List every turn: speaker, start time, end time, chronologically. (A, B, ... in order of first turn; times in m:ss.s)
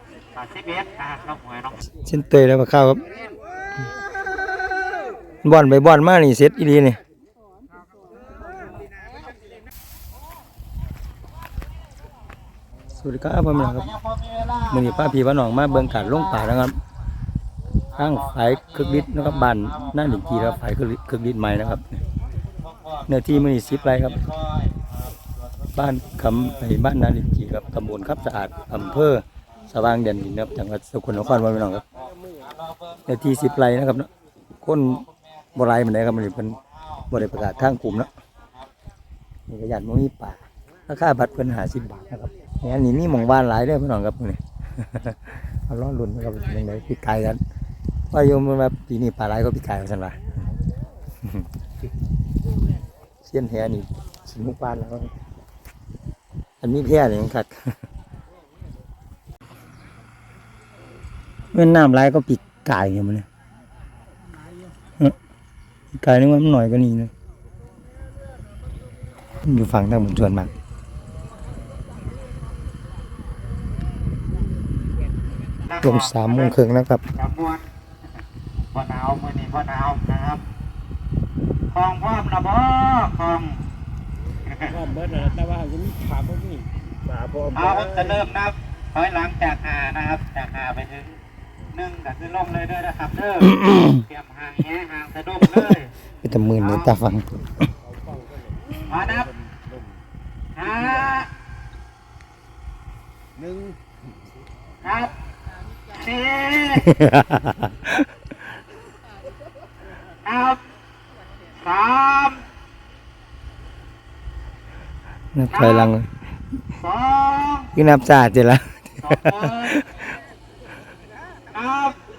0:00.4-0:01.9 A
0:02.0-0:03.0 B
0:05.4-0:07.0 B
0:13.0-0:14.0 B
0:14.2-0:14.7 A
0:14.7-0:16.8 B
0:18.0-0:22.0 B
0:18.1-0:19.9 A
0:22.8-0:23.1 A
0:23.1-0:24.2 B
0:23.6-0:24.8 A
0:25.7-0:31.8 B
0:32.0-0:32.6 C
0:32.7-0:33.0 A
0:33.1-0:34.1 B
0:34.6-0:36.6 B
0:37.1-0:38.1 B
0:39.5-0:47.4 B
0:48.1-0:50.2 B
0:53.2-0:55.1 B
0:56.6-0:57.7 B
1:01.5-1:03.3 B
1:04.3-1:04.8 C
1:05.9-1:07.1 B
1:09.4-1:10.5 B
1:15.7-1:16.6 A
1:15.8-1:17.0 B
1:17.1-1:17.6 A
1:18.7-1:20.4 A
1:21.7-1:23.6 A
1:24.5-1:24.7 A
1:24.6-1:28.2 C
1:27.5-1:31.2 A
1:31.7-1:35.9 A
1:33.4-1:34.0 B
1:36.2-1:37.3 B
1:36.6-1:36.9 A
1:37.8-1:40.0 C
1:38.9-1:39.3 A
1:40.6-1:41.3 A
1:43.4-1:44.1 C
1:44.8-1:45.1 A
1:45.9-1:47.0 A
1:46.8-1:48.0 B
1:50.2-1:50.6 A
1:51.6-1:52.4 A
1:55.3-1:56.1 B
1:55.5-1:55.9 A
1:56.8-1:57.7 A
1:57.7-2:00.0 B
1:59.0-1:59.8 A
2:01.5-2:02.0 A